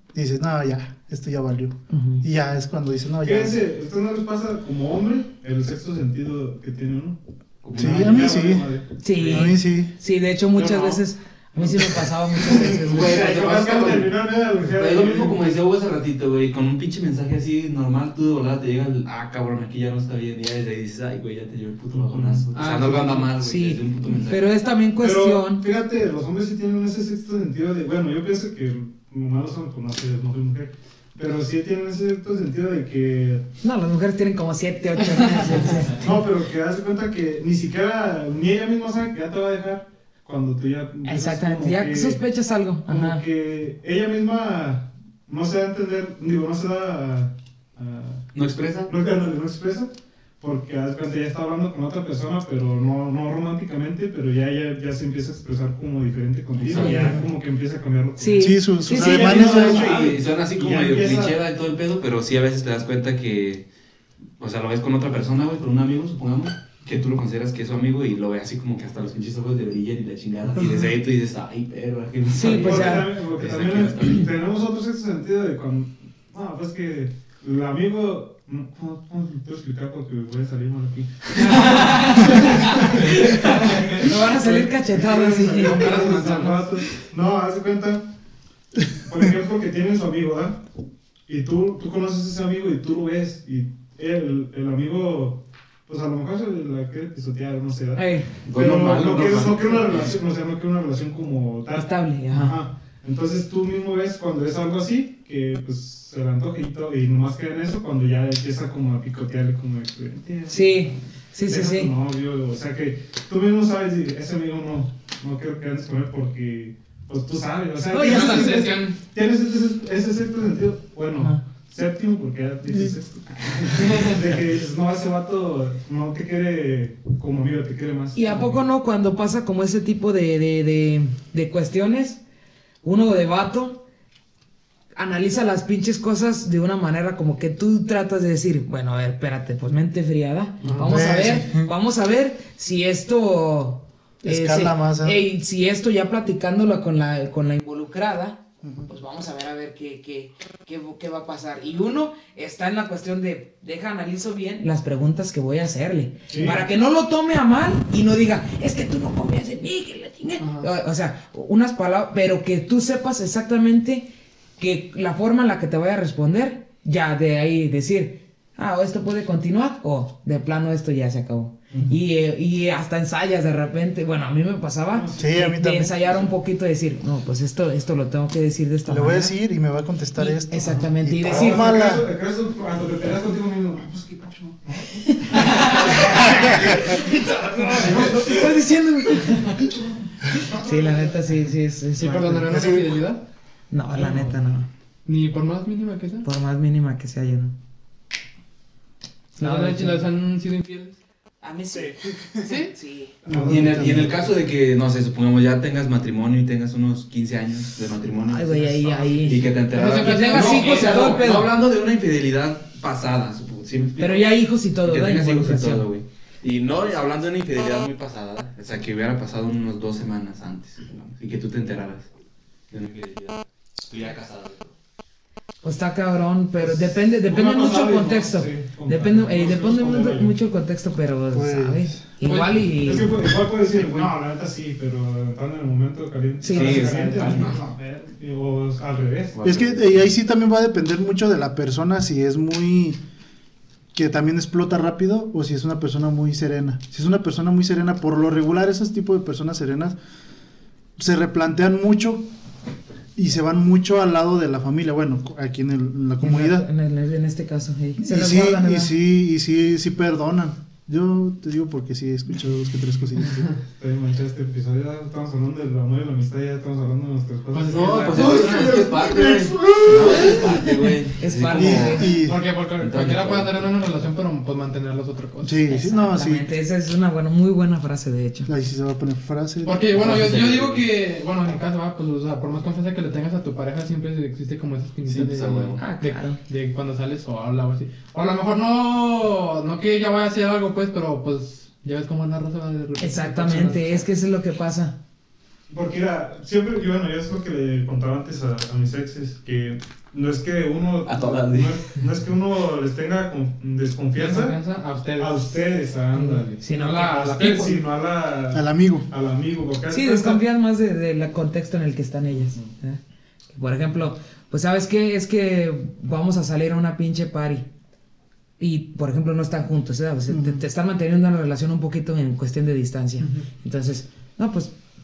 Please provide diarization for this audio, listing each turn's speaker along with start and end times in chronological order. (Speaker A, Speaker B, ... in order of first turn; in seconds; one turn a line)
Speaker A: 0.1-3.6
Speaker B: 1.9-2.2
Speaker C: 3.2-9.5
Speaker D: 7.7-8.3
Speaker A: 7.8-8.7
Speaker B: 9.0-13.2
Speaker A: 9.2-9.9
Speaker C: 10.6-11.0
Speaker C: 11.6-15.6
Speaker D: 12.8-24.5
Speaker C: 21.9-22.5
Speaker E: 22.5-23.3
Speaker B: 23.4-25.6
Speaker C: 25.0-33.5
Speaker B: 33.6-36.0
Speaker C: 35.9-42.2
Speaker B: 41.0-43.2
Speaker C: 42.9-48.3
Speaker D: 48.3-48.9
Speaker C: 48.9-61.4
Speaker D: 56.6-57.2
Speaker B: 56.8-57.2
Speaker B: 58.2-59.8
Speaker A: 58.4-59.9
Speaker D: 59.6-63.7
Speaker D: 64.4-74.3
Speaker B: 72.3-73.2
Speaker C: 72.4-88.1
Speaker B: 81.4-86.0
Speaker E: 85.6-86.7
Speaker C: 88.9-90.6
Speaker C: 91.3-128.6
Speaker B: 98.0-98.4
Speaker D: 98.5-100.2
Speaker B: 101.8-102.6
Speaker B: 110.5-111.9
Speaker B: 117.9-118.7
Speaker E: 118.0-119.0
Speaker A: 122.7-123.0
Speaker E: 123.8-124.2
Speaker B: 128.1-132.2
Speaker B: 132.8-133.8
Speaker B: 134.9-179.4
Speaker E: 140.6-141.0
Speaker A: 140.8-141.7
Speaker A: 144.2-145.2
Speaker A: 148.6-148.9
Speaker C: 156.3-156.6
Speaker E: 160.4-160.7
Speaker C: 174.9-175.4
Speaker A: 175.2-176.2
Speaker A: 178.9-182.1
Speaker B: 180.2-181.7
Speaker C: 180.7-188.7
Speaker B: 185.2-189.7
Speaker A: 186.3-187.0
Speaker C: 189.6-191.5
Speaker B: 190.3-192.7
Speaker E: 192.0-193.2
Speaker A: 192.4-193.0
Speaker B: 193.7-194.7
Speaker C: 194.0-194.4
Speaker E: 195.1-196.3
Speaker B: 196.2-197.6
Speaker E: 199.4-201.0
Speaker B: 199.4-200.1
Speaker B: 201.4-203.2
Speaker C: 201.7-202.4
Speaker E: 202.4-202.7
Speaker C: 203.2-204.1
Speaker A: 203.3-204.3
Speaker D: 203.3-208.6
Speaker B: 208.3-211.5
Speaker C: 208.5-209.6
Speaker D: 209.2-214.3
Speaker E: 209.7-211.4
Speaker B: 214.0-215.9
Speaker D: 214.8-222.1
Speaker D: 222.7-224.7
Speaker B: 225.6-233.2
Speaker C: 226.6-230.3
Speaker A: 231.3-232.0
Speaker E: 232.2-232.6
Speaker C: 232.8-239.4
Speaker B: 236.4-237.5
Speaker D: 236.5-237.6
Speaker D: 239.3-239.9
Speaker A: 239.4-243.0
Speaker A: 243.9-250.0
Speaker A: 251.0-252.3
Speaker A: 253.2-256.7
Speaker B: 256.2-258.9
Speaker A: 258.0-263.5
Speaker C: 263.7-268.6
Speaker E: 267.5-269.4
Speaker D: 267.7-273.7
Speaker A: 268.1-270.4
Speaker E: 270.1-270.4
Speaker B: 271.2-272.1
Speaker A: 271.5-272.4
Speaker E: 272.2-275.6
Speaker A: 275.4-276.5
Speaker B: 275.7-278.5
Speaker A: 278.5-279.9
Speaker E: 279.6-294.1
Speaker D: 279.9-280.9
Speaker D: 285.1-285.8
Speaker B: 285.8-286.4
Speaker B: 293.0-295.0
Speaker C: 295.7-304.6
Speaker D: 301.1-301.8
Speaker E: 304.1-305.5
Speaker C: 305.2-310.4
Speaker B: 306.1-307.4
Speaker E: 306.7-307.8
Speaker A: 308.5-309.1
Speaker B: 309.9-313.0
Speaker B: 313.5-317.7
Speaker B: 318.6-324.7
Speaker A: 320.3-320.6